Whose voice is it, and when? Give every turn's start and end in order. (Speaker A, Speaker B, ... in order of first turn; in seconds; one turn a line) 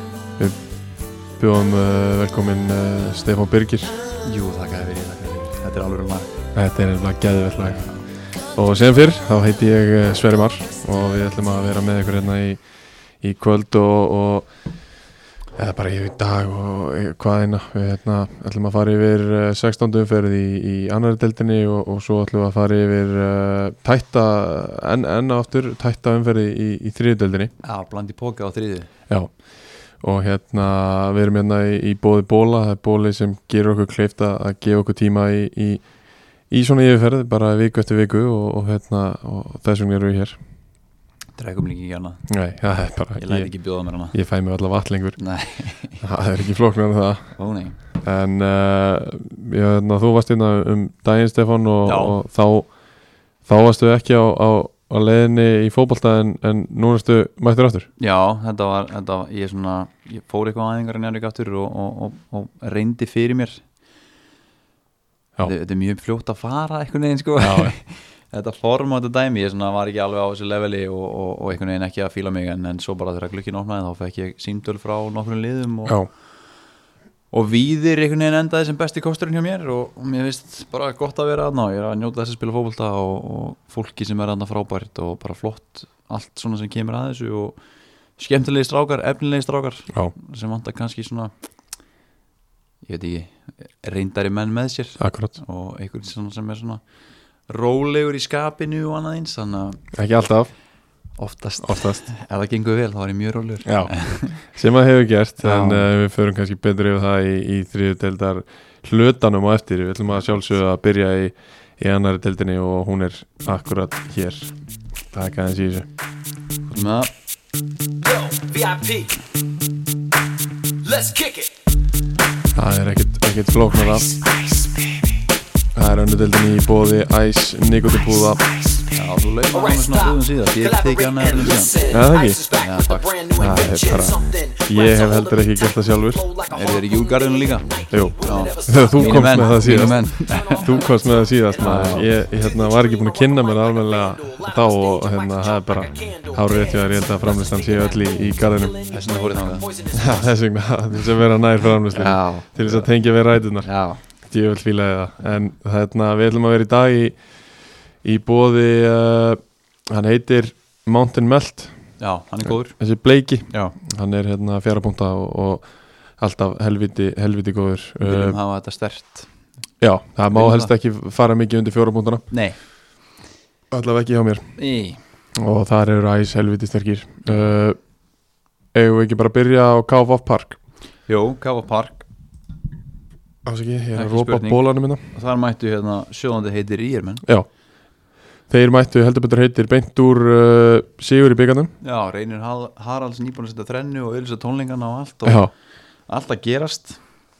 Speaker A: 1.4-3.9
Speaker B: 4.2-6.4
Speaker A: 6.5-7.8
Speaker B: 7.6-8.1
Speaker A: 8.5-12.6
Speaker A: 13.2-14.5
Speaker A: 15.5-27.5
Speaker B: 27.6-28.9
Speaker A: 30.0-35.9
Speaker A: 36.5-40.4
Speaker B: 41.4-42.2
Speaker A: 42.3-43.5
Speaker B: 43.1-44.1
Speaker A: 44.1-45.2
Speaker B: 45.2-46.0
Speaker A: 46.0-52.7
Speaker B: 47.3-47.8
Speaker B: 51.8-52.2
Speaker A: 53.4-57.9
Speaker B: 58.0-63.6
Speaker B: 65.4-76.0
Speaker A: 67.4-67.7
Speaker B: 77.3-87.6
Speaker B: 88.2-91.3
Speaker B: 92.8-96.8
Speaker A: 95.0-95.3
Speaker B: 97.5-99.8
Speaker A: 99.9-100.5
Speaker B: 101.2-104.4
Speaker A: 101.6-102.0
Speaker A: 103.6-114.5
Speaker B: 105.4-105.9
Speaker A: 115.1-115.9
Speaker B: 116.7-117.1
Speaker C: 118.0-119.2
Speaker C: 120.8-121.5
Speaker A: 122.5-124.2
Speaker A: 125.7-128.4
Speaker B: 128.9-133.8
Speaker C: 129.5-150.3
Speaker A: 131.9-132.4
Speaker A: 133.4-136.3
Speaker B: 136.5-140.7
Speaker A: 137.9-148.8
Speaker B: 141.6-142.1
Speaker B: 148.9-149.8
Speaker A: 149.9-157.2
Speaker B: 151.9-152.9
Speaker B: 153.6-154.0
Speaker A: 158.0-161.9
Speaker B: 162.0-162.8
Speaker A: 162.4-168.4
Speaker B: 163.5-163.8
Speaker B: 168.0-169.3
Speaker A: 169.8-172.3
Speaker B: 170.3-170.7
Speaker B: 172.3-172.6
Speaker A: 173.7-174.6
Speaker B: 174.6-175.0
Speaker A: 175.3-177.8
Speaker A: 178.7-180.6
Speaker B: 181.1-182.1
Speaker A: 183.4-185.0
Speaker B: 183.9-187.2
Speaker A: 188.5-191.7
Speaker B: 191.8-195.5
Speaker A: 195.2-195.5
Speaker B: 196.1-197.0